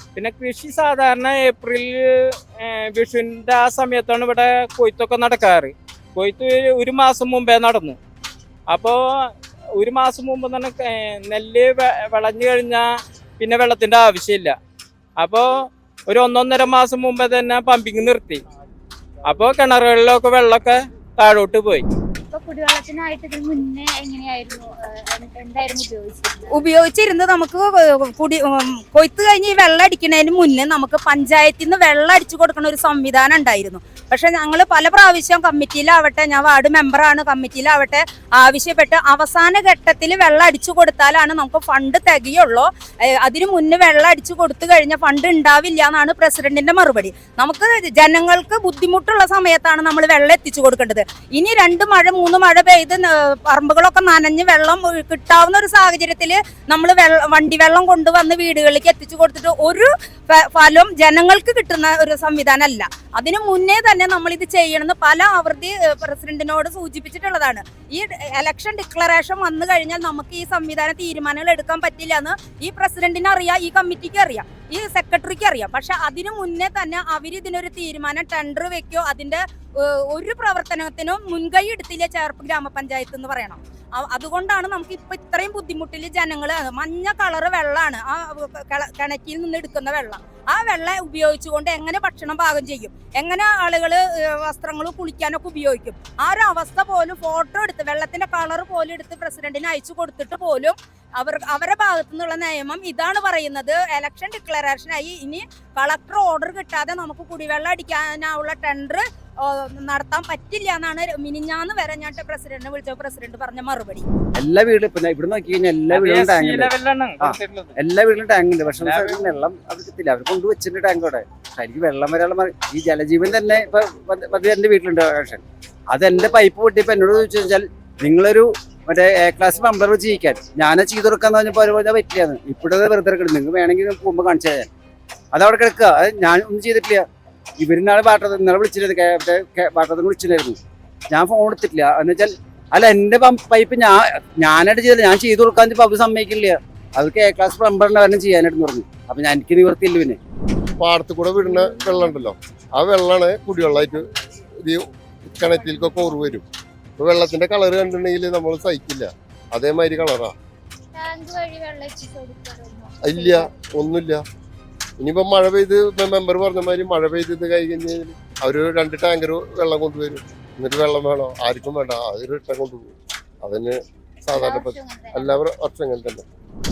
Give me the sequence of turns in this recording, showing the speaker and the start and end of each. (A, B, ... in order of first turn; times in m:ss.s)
0:00.1-0:08.0 A
0:08.7-0:12.9 A
0:13.4-0:14.5 A
0:15.2-0:18.4 A
0:19.3-0:21.8 A
0:22.3-0:26.6 B
0:26.5-1:54.0 C
1:54.4-2:14.7 D
1:55.9-1:57.8 A
1:58.8-1:59.3 A
2:15.3-2:17.0 D
2:17.6-2:20.6 D
2:21.1-2:30.2 D
2:30.8-2:34.1 E
2:34.6-2:36.4 E
2:37.0-2:40.3 E
2:40.9-2:43.5 B
2:43.0-2:44.2 E
2:45.0-2:56.2 E
2:54.3-2:55.4 B